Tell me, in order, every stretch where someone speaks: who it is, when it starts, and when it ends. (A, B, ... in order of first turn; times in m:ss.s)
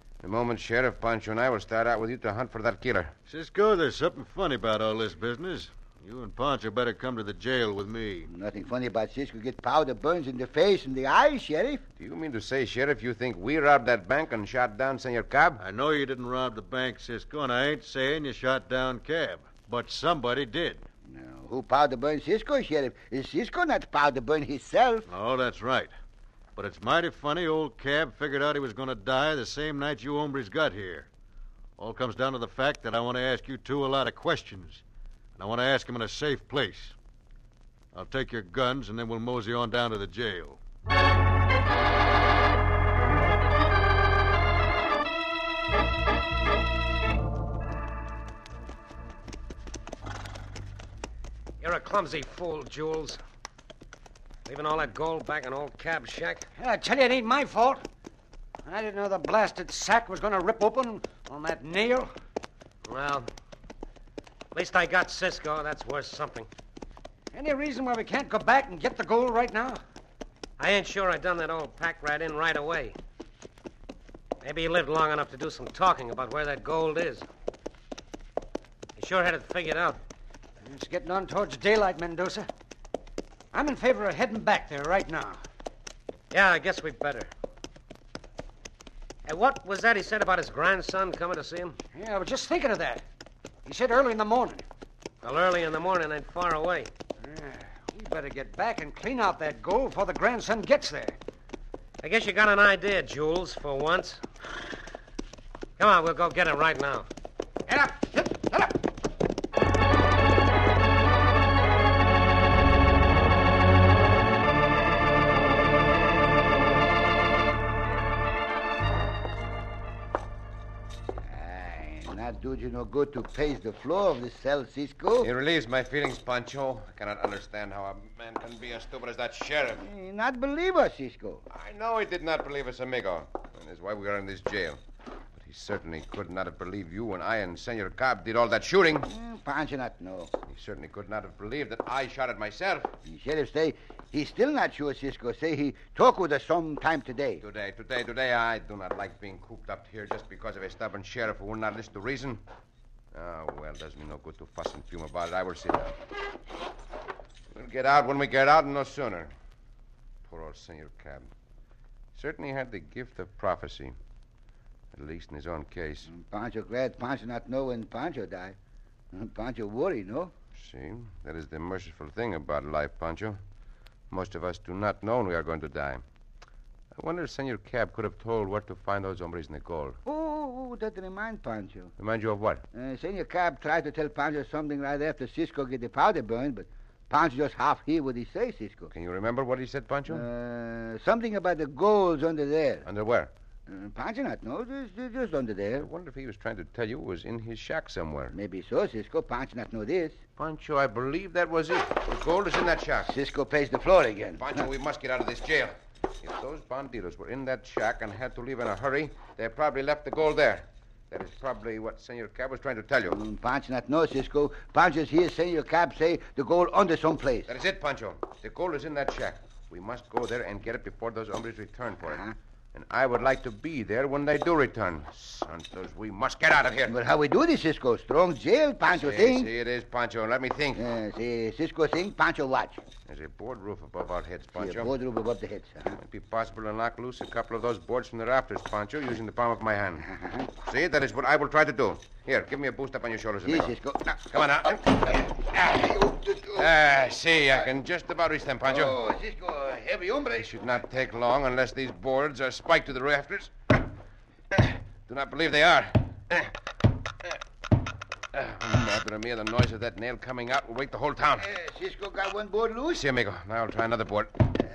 0:00.2-0:03.1 A
0:03.3-0:08.3 B
0:08.3-0:11.8 C
0:12.0-0:15.6 A
0:15.6-0:20.8 B
0:21.1-0:25.1 C
0:25.1-0:25.9 B
0:26.6-0:31.1 B
0:31.8-0:34.8 B
0:35.4-0:36.9 B
0:37.9-0:40.6 B
0:51.6-0:53.2 D
0:54.4-0:56.4 D
0:56.6-0:57.8 E
0:58.6-1:02.1 E
1:02.8-1:03.3 D
1:04.5-1:06.5 D
1:07.3-1:09.8 E
1:10.6-1:13.0 D
1:14.4-1:17.3 D
1:19.0-1:20.0 D
1:20.6-1:22.5 E
1:23.5-1:25.4 E
1:26.3-1:27.3 D
1:29.2-1:31.8 D
1:31.9-1:33.0 E
1:33.6-1:34.6 E
1:35.2-1:36.9 D
1:37.2-1:41.2 E
1:42.0-1:44.2 D
1:45.8-1:47.1 D
1:47.7-1:48.8 E
2:01.2-2:05.3 C
2:05.2-2:09.8 A
2:09.8-2:11.4 C
2:11.5-2:14.8 A
2:15.4-2:19.1 A
2:19.0-2:20.3 C
2:20.5-2:22.9 A
2:23.0-2:27.4 C
2:27.4-2:32.4 A
2:33.1-2:36.0 A
2:37.5-2:39.3 A
2:40.2-2:41.3 A
2:42.1-2:43.9 A
2:44.9-2:46.1 A
2:46.1-2:48.6 C
2:49.1-2:50.3 C
2:50.5-2:53.4 A
2:54.1-2:56.0 A
2:57.0-3:00.0 A
3:00.0-3:01.9 C
3:02.0-3:02.6 A
3:02.7-3:08.9 C
3:08.9-3:10.2 A
3:10.1-3:12.8 C
3:12.8-3:13.3 A
3:13.7-3:15.9 C
3:15.8-3:18.3 A
3:18.3-3:20.2 C
3:20.4-3:23.1 A
3:23.0-3:24.7 C
3:24.4-3:33.2 A
3:33.1-3:37.5 C
3:37.5-3:42.2 A
3:42.0-3:42.3 C
3:42.7-3:46.9 A
3:46.9-3:49.5 C
3:48.9-3:50.8 A
3:50.7-3:52.8 C
3:53.1-3:54.9 A
3:54.6-3:56.0 C
3:55.9-4:00.0 A
4:00.0-4:00.5 C
4:00.6-4:03.7 A
4:03.4-4:06.7 C
4:04.3-4:05.3 A
4:06.6-4:08.9 A
4:08.6-4:10.5 C
4:10.3-4:13.8 A
4:14.5-4:16.5 A
4:18.3-4:21.5 A
4:21.4-4:23.0 C
4:22.9-4:24.5 A